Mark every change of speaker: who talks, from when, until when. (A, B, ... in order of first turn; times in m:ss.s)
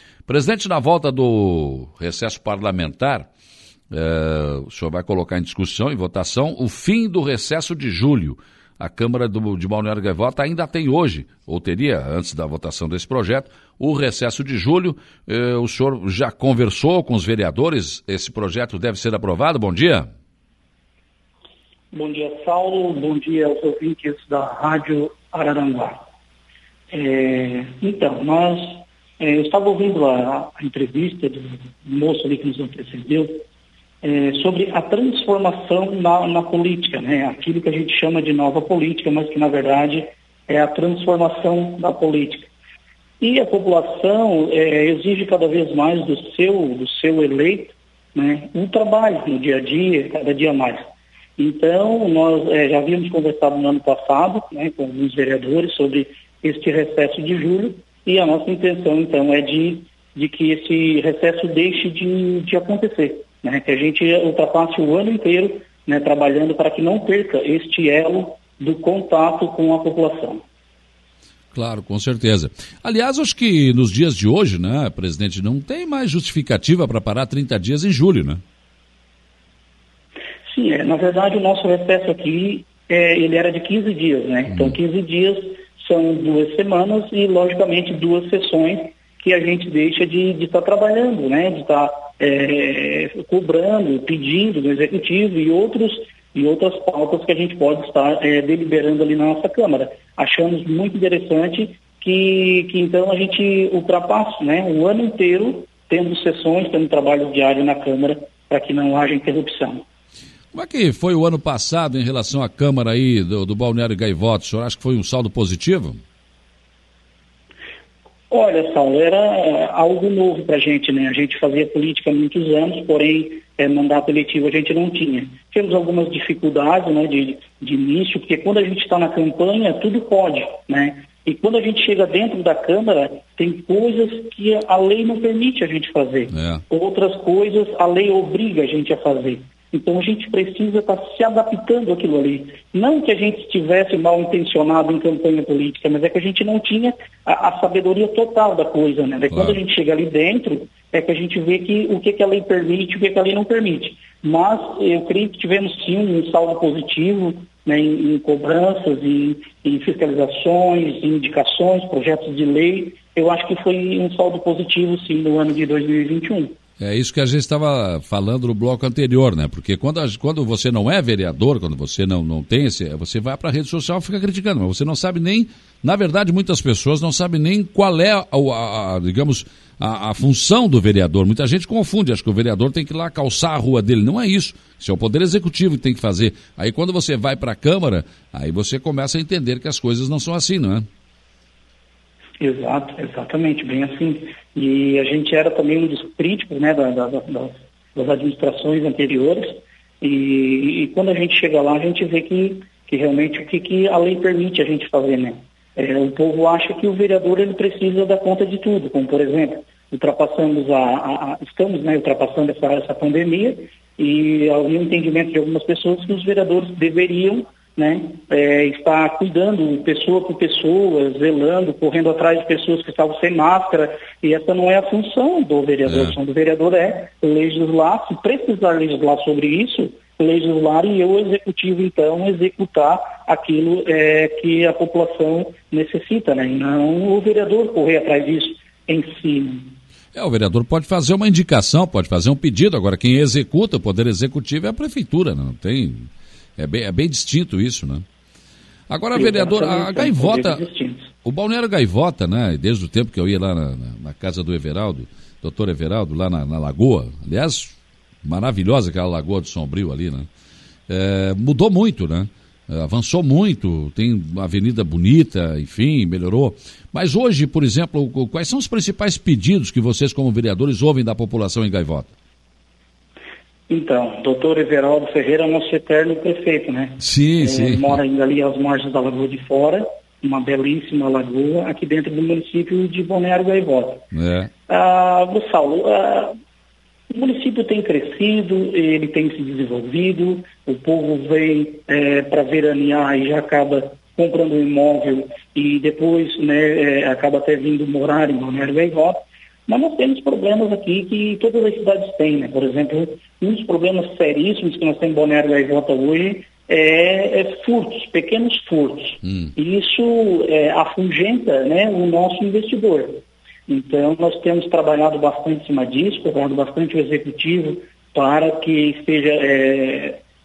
0:00.3-0:03.3 A
0:03.9-0:20.1 A
0:21.9-0:26.0 B
0:26.9-0:33.4 B
0:34.0-0:42.5 B
0:43.2-1:10.4 B
1:11.5-1:18.4 A
1:20.5-1:49.8 B
1:50.5-1:56.0 A
1:58.3-2:46.5 B
2:16.3-2:16.6 A
2:46.8-3:10.8 A
3:12.4-3:59.8 B
4:00.2-4:08.0 A
4:08.9-4:10.6 A
4:09.1-4:11.1 B
4:11.2-4:20.3 A
4:20.9-4:32.1 A
4:33.7-4:44.1 B
4:37.0-4:38.0 A
4:44.1-4:44.5 A
4:44.7-4:46.4 B
4:47.1-5:20.2 B